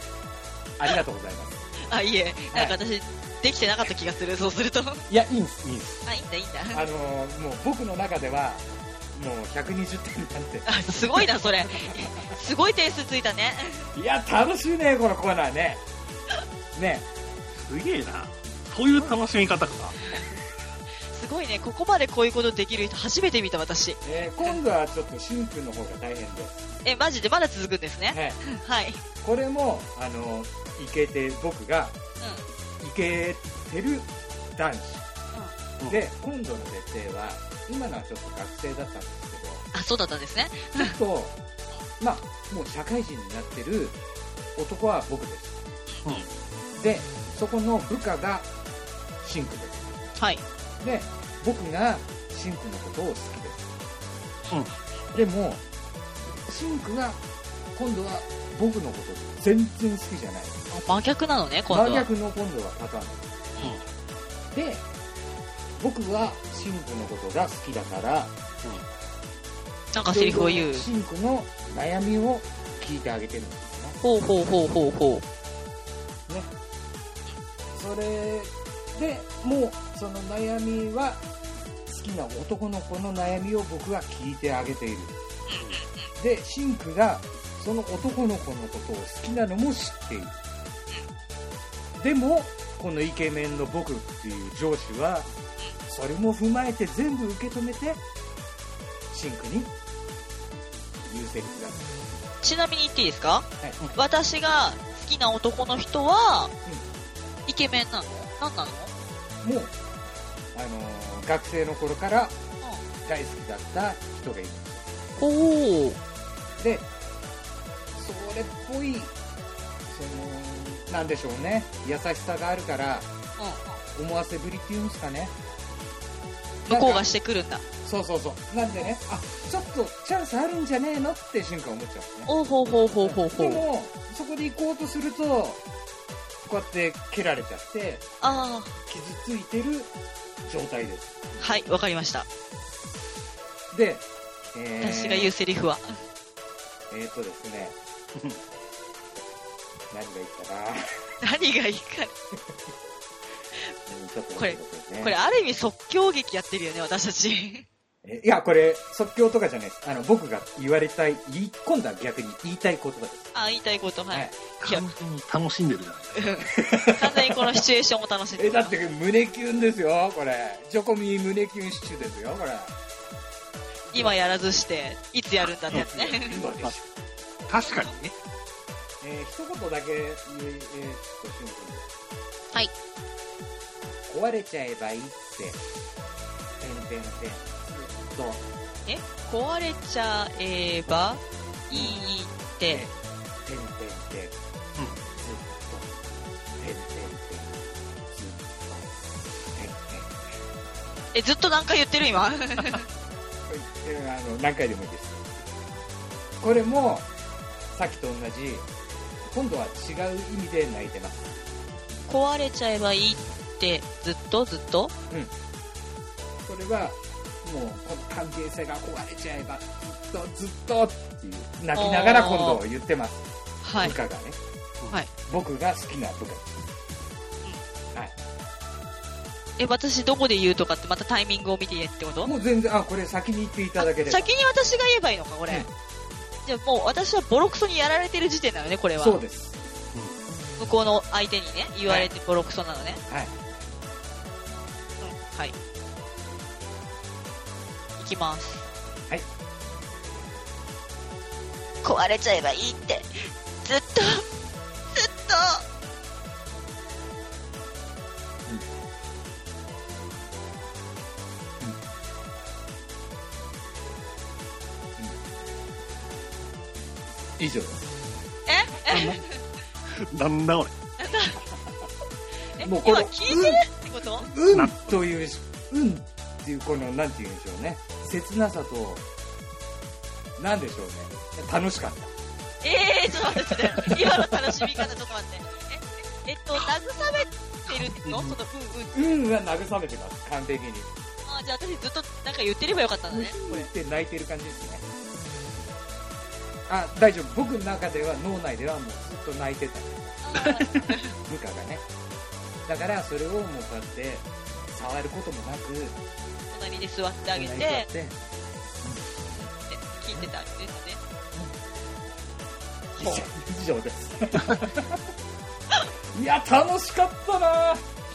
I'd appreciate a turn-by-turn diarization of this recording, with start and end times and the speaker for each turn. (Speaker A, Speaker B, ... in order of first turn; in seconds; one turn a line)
Speaker A: 0.8-1.6
Speaker B: 1.9-5.0
Speaker A: 2.5-2.8
Speaker A: 5.1-6.0
Speaker B: 6.1-6.8
Speaker A: 6.7-12.3
Speaker B: 10.7-13.9
Speaker A: 13.9-15.8
Speaker A: 16.8-17.1
Speaker C: 17.6-20.0
Speaker B: 21.1-24.0
Speaker A: 24.0-26.7
Speaker B: 26.9-29.0
Speaker A: 28.1-28.4
Speaker A: 29.2-32.0
Speaker A: 32.8-35.1
Speaker A: 35.9-39.6
Speaker B: 39.7-41.0
Speaker A: 40.8-41.4
Speaker A: 42.0-44.0
Speaker A: 44.6-45.6
Speaker A: 46.8-48.5
Speaker A: 49.2-49.9
Speaker A: 50.8-53.7
Speaker A: 55.1-55.6
Speaker A: 56.5-57.2
Speaker A: 57.8-60.6
Speaker B: 60.7-62.1
Speaker A: 61.7-63.2
Speaker A: 64.5-64.8
Speaker A: 65.8-68.3
Speaker B: 69.9-70.9
Speaker A: 70.1-74.0
Speaker B: 74.0-75.2
Speaker A: 77.8-81.2
Speaker A: 81.9-85.1
Speaker B: 85.5-86.1
Speaker A: 86.2-90.4
Speaker A: 92.0-95.3
Speaker A: 95.9-98.0
Speaker A: 99.1-99.7
Speaker A: 101.1-101.9
Speaker B: 102.4-106.5
Speaker B: 107.5-108.9
Speaker A: 109.4-109.7
Speaker A: 110.5-112.3
Speaker A: 113.0-114.8
Speaker B: 115.2-116.0
Speaker A: 116.6-116.9
Speaker A: 118.0-119.1
Speaker A: 119.9-123.1
Speaker A: 124.0-125.3
Speaker B: 126.7-127.6
Speaker A: 126.7-127.0
Speaker A: 127.8-132.3
Speaker B: 132.3-133.6
Speaker A: 133.0-135.6
Speaker A: 136.4-138.1
Speaker B: 138.2-138.8
Speaker A: 138.9-139.9
Speaker A: 140.4-141.4
Speaker B: 141.4-142.3
Speaker A: 143.7-145.3
Speaker B: 144.8-145.9
Speaker A: 146.9-147.8
Speaker C: 148.2-148.4
Speaker A: 149.9-150.8
Speaker B: 151.2-152.2
Speaker A: 153.9-155.2
Speaker B: 154.4-157.7
Speaker A: 158.0-163.3
Speaker B: 163.3-164.9
Speaker A: 164.1-164.4
Speaker C: 164.6-166.5
Speaker B: 166.2-168.7
Speaker A: 166.6-167.4
Speaker A: 168.4-172.7
Speaker A: 173.9-174.2
Speaker B: 173.9-176.4
Speaker C: 175.7-176.8
Speaker A: 175.7-176.8
Speaker C: 177.5-178.1
Speaker A: 179.0-181.9
Speaker A: 184.1-185.6
Speaker A: 186.6-188.4
Speaker B: 188.9-192.8
Speaker A: 191.7-192.0
Speaker A: 192.7-192.9
Speaker A: 193.4-194.4
Speaker A: 195.2-195.9
Speaker A: 196.6-197.6
Speaker A: 198.1-198.9
Speaker A: 199.5-200.1
Speaker B: 201.1-202.9
Speaker A: 203.5-205.2
Speaker A: 206.4-207.1
Speaker A: 207.7-208.7
Speaker A: 209.3-211.3
Speaker B: 212.1-214.9
Speaker A: 216.5-223.2
Speaker B: 221.8-222.6
Speaker B: 223.6-224.0
Speaker A: 223.8-224.4
Speaker A: 225.3-226.6
Speaker B: 229.6-232.3
Speaker A: 232.2-234.3
Speaker B: 233.8-235.7
Speaker B: 236.4-239.2
Speaker A: 239.0-239.6
Speaker B: 240.6-243.0
Speaker A: 243.1-243.3
Speaker B: 245.0-245.5
Speaker B: 248.0-248.7
Speaker B: 251.8-254.3
Speaker B: 254.9-255.6
Speaker A: 267.4-267.8
Speaker B: 268.5-269.4
Speaker C: 268.9-269.2
Speaker C: 269.9-270.7
Speaker B: 271.0-271.5
Speaker B: 272.6-274.3
Speaker A: 272.6-273.6
Speaker A: 274.2-279.0
Speaker C: 274.5-275.0
Speaker A: 280.4-282.1
Speaker B: 282.6-289.2
Speaker A: 283.3-284.9
Speaker C: 288.0-288.4
Speaker A: 288.9-290.9
Speaker B: 291.2-293.7
Speaker A: 293.1-294.9
Speaker A: 296.7-300.6
Speaker B: 300.2-301.2
Speaker C: 300.5-300.8
Speaker A: 301.2-301.9
Speaker A: 302.7-306.0
Speaker B: 306.5-307.9
Speaker A: 307.4-308.2
Speaker B: 309.3-311.0
Speaker B: 313.0-313.3
Speaker A: 313.0-315.1
Speaker A: 316.1-317.8